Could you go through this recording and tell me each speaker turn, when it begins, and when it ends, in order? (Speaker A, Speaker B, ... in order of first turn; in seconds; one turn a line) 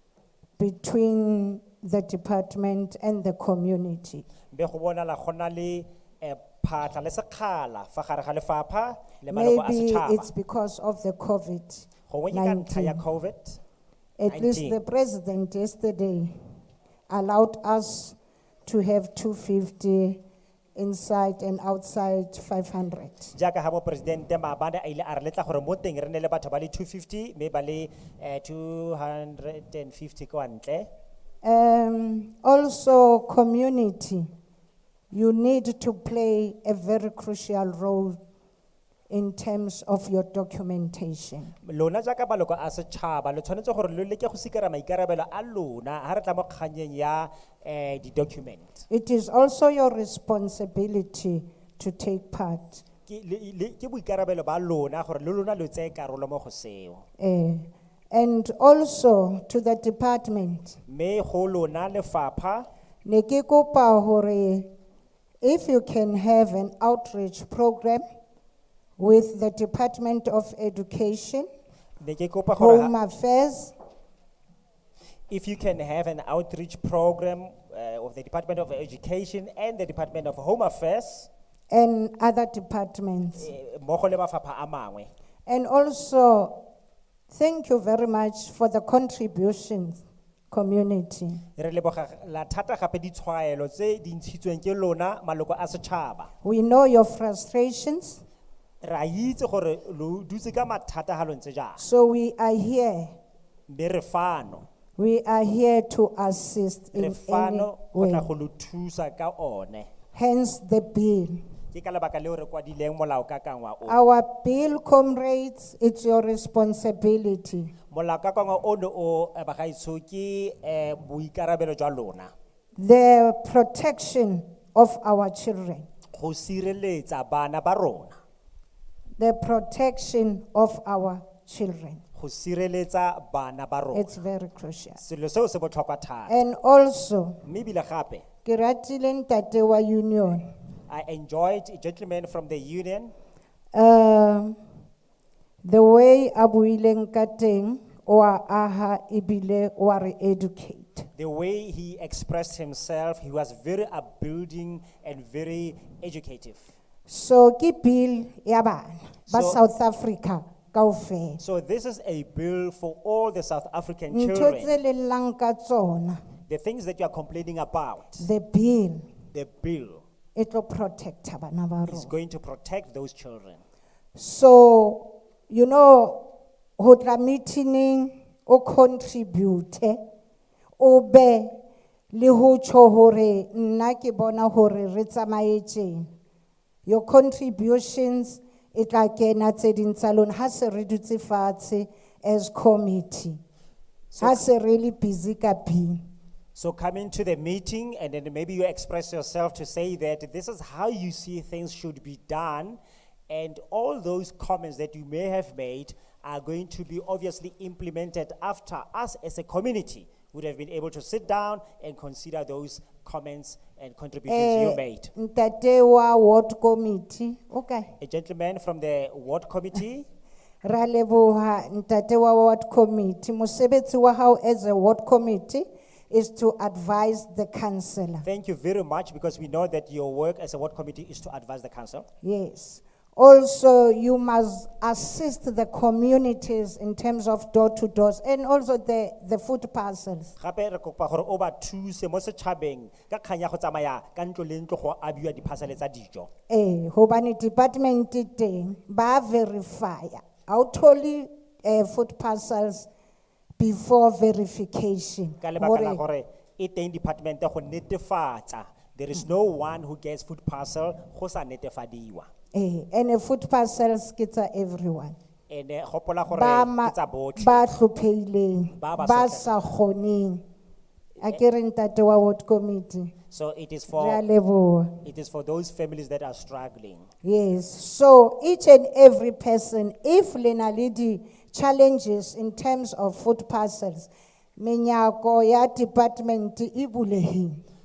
Speaker A: 0.6-4.2
Speaker B: 4.5-10.3
Speaker A: 9.3-13.0
Speaker B: 12.1-13.6
Speaker A: 14.2-16.3
Speaker B: 14.3-14.8
Speaker A: 17.1-20.2
Speaker A: 20.8-23.4
Speaker B: 23.4-30.9
Speaker A: 31.4-34.3
Speaker A: 35.1-38.2
Speaker A: 39.1-41.5
Speaker B: 41.6-48.8
Speaker A: 48.9-52.8
Speaker B: 53.1-57.0
Speaker A: 57.2-60.8
Speaker B: 60.9-62.7
Speaker A: 63.1-64.7
Speaker A: 65.4-68.0
Speaker A: 69.0-71.5
Speaker B: 72.0-72.9
Speaker A: 72.6-73.8
Speaker B: 75.3-81.3
Speaker A: 81.7-83.5
Speaker B: 83.4-85.1
Speaker A: 85.5-86.6
Speaker A: 87.3-91.4
Speaker B: 91.6-96.3
Speaker A: 96.4-98.2
Speaker B: 98.8-101.8
Speaker A: 101.8-103.2
Speaker B: 103.7-104.6
Speaker A: 105.0-108.3
Speaker B: 107.0-109.9
Speaker A: 110.2-111.4
Speaker B: 111.7-114.0
Speaker A: 113.9-117.7
Speaker B: 117.9-122.3
Speaker A: 122.8-125.9
Speaker B: 126.1-128.2
Speaker A: 129.2-132.0
Speaker B: 132.2-134.1
Speaker A: 133.9-135.0
Speaker B: 135.0-136.4
Speaker A: 136.3-137.4
Speaker B: 137.4-138.2
Speaker A: 138.4-140.4
Speaker B: 140.9-143.1
Speaker A: 143.8-144.6
Speaker A: 145.6-151.1
Speaker B: 151.2-156.6
Speaker A: 157.1-161.4
Speaker B: 159.3-159.6
Speaker B: 161.4-164.8
Speaker A: 164.1-166.2
Speaker B: 166.5-168.3
Speaker A: 168.2-169.1
Speaker B: 169.3-170.0
Speaker A: 170.3-172.1
Speaker B: 171.9-173.6
Speaker A: 174.2-176.3
Speaker A: 176.8-180.0
Speaker A: 180.8-181.6
Speaker A: 182.1-186.1
Speaker A: 186.9-193.4
Speaker B: 194.1-194.4
Speaker A: 194.2-196.0
Speaker B: 196.6-215.1
Speaker A: 214.3-217.9
Speaker B: 218.0-220.1
Speaker A: 220.6-228.3
Speaker B: 228.2-232.1
Speaker A: 232.2-240.3
Speaker B: 240.4-246.3
Speaker A: 246.5-252.9
Speaker A: 253.6-256.0
Speaker B: 255.4-262.3
Speaker A: 262.5-265.2
Speaker B: 265.5-267.8
Speaker A: 266.3-270.4
Speaker B: 268.8-269.6
Speaker A: 271.2-273.1
Speaker B: 273.3-274.2
Speaker A: 273.9-275.0
Speaker B: 275.1-277.1
Speaker A: 277.2-287.6